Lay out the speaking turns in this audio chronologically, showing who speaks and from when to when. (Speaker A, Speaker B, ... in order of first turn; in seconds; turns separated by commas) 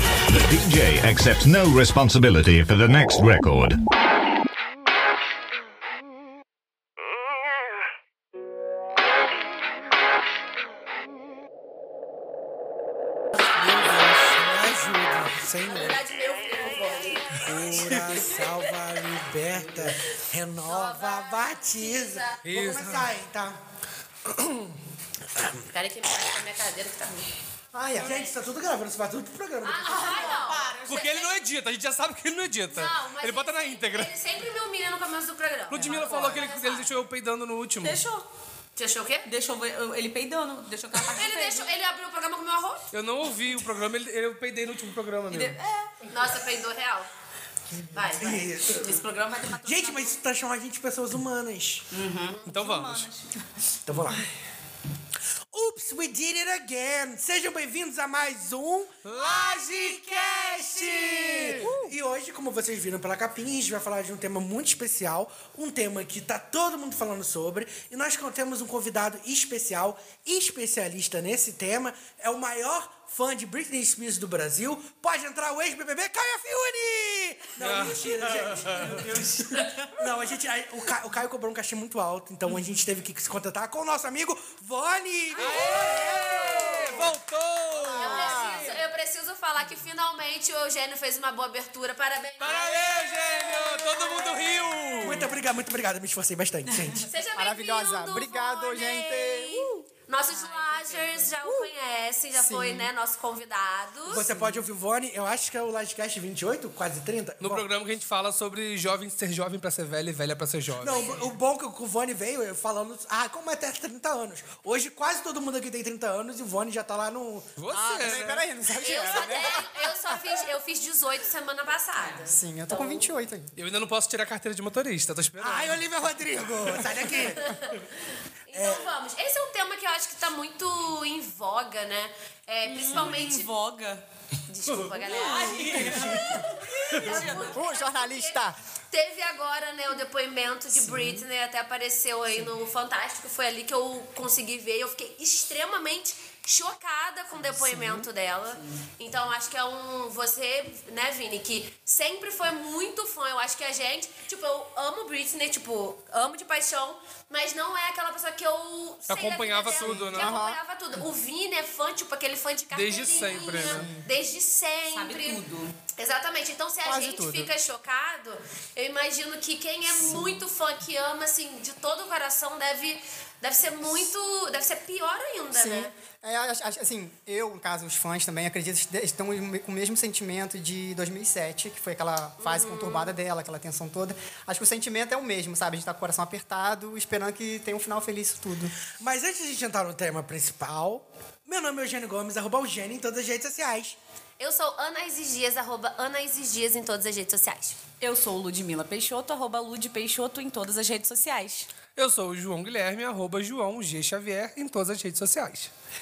Speaker A: 0.3-3.8, Speaker B: 13.5-16.0, Speaker C: 15.6-18.4, Speaker B: 17.4-23.6, Speaker D: 17.7-18.2, Speaker C: 19.9-22.4, Speaker D: 22.4-23.1, Speaker B: 24.3-24.7, Speaker B: 25.2-25.7, Speaker C: 25.7-27.3, Speaker E: 27.7-28.1, Speaker B: 27.9-30.3, Speaker C: 28.0-28.4, Speaker C: 29.6-31.3, Speaker F: 29.8-31.1, Speaker D: 30.9-34.1, Speaker C: 32.7-36.9, Speaker D: 35.7-38.0, Speaker E: 35.7-36.3, Speaker F: 37.8-38.2, Speaker C: 38.8-39.2, Speaker F: 39.2-41.7, Speaker C: 41.0-42.8, Speaker D: 42.9-45.6, Speaker F: 45.3-46.1, Speaker C: 46.1-47.1, Speaker C: 47.9-48.4, Speaker B: 48.2-51.9, Speaker F: 48.6-50.2, Speaker F: 51.9-53.4, Speaker D: 52.5-53.1, Speaker B: 53.9-54.3, Speaker B: 55.5-86.6, Speaker D: 59.0-59.5, Speaker F: 61.0-61.7, Speaker D: 61.1-61.5, Speaker E: 61.6-61.9, Speaker D: 77.6-79.1, Speaker F: 78.8-79.9, Speaker D: 85.4-88.6, Speaker C: 85.8-87.0, Speaker E: 87.8-88.7, Speaker C: 87.9-95.0, Speaker F: 88.2-88.7, Speaker D: 92.4-95.3, Speaker B: 95.0-97.1, Speaker F: 96.7-97.0, Speaker C: 97.1-104.2, Speaker E: 97.3-99.8, Speaker F: 100.3-101.4, Speaker E: 102.3-102.9, Speaker B: 104.0-107.7, Speaker E: 104.2-104.6, Speaker D: 107.4-111.0, Speaker B: 110.8-117.6, Speaker C: 110.8-111.3, Speaker D: 117.6-118.5, Speaker E: 117.7-120.1, Speaker C: 118.8-123.1, Speaker F: 122.0-122.3, Speaker E: 122.3-123.5, Speaker D: 123.5-125.8, Speaker B: 125.4-127.6, Speaker C: 127.1-133.5, Speaker B: 128.5-128.9, Speaker F: 132.6-134.0, Speaker C: 134.5-138.4, Speaker F: 135.0-137.6, Speaker D: 135.6-135.9, Speaker E: 137.1-138.6, Speaker C: 138.9-165.4, Speaker E: 147.6-148.1, Speaker F: 148.5-148.8, Speaker D: 159.1-160.4, Speaker E: 159.8-160.6, Speaker D: 162.7-163.9, Speaker E: 163.4-164.1, Speaker F: 164.9-165.7, Speaker C: 165.9-175.9, Speaker E: 166.8-167.5, Speaker E: 175.5-188.7, Speaker C: 182.4-183.1, Speaker B: 189.0-194.0, Speaker C: 194.4-197.8, Speaker F: 198.0-201.7, Speaker D: 201.9-205.7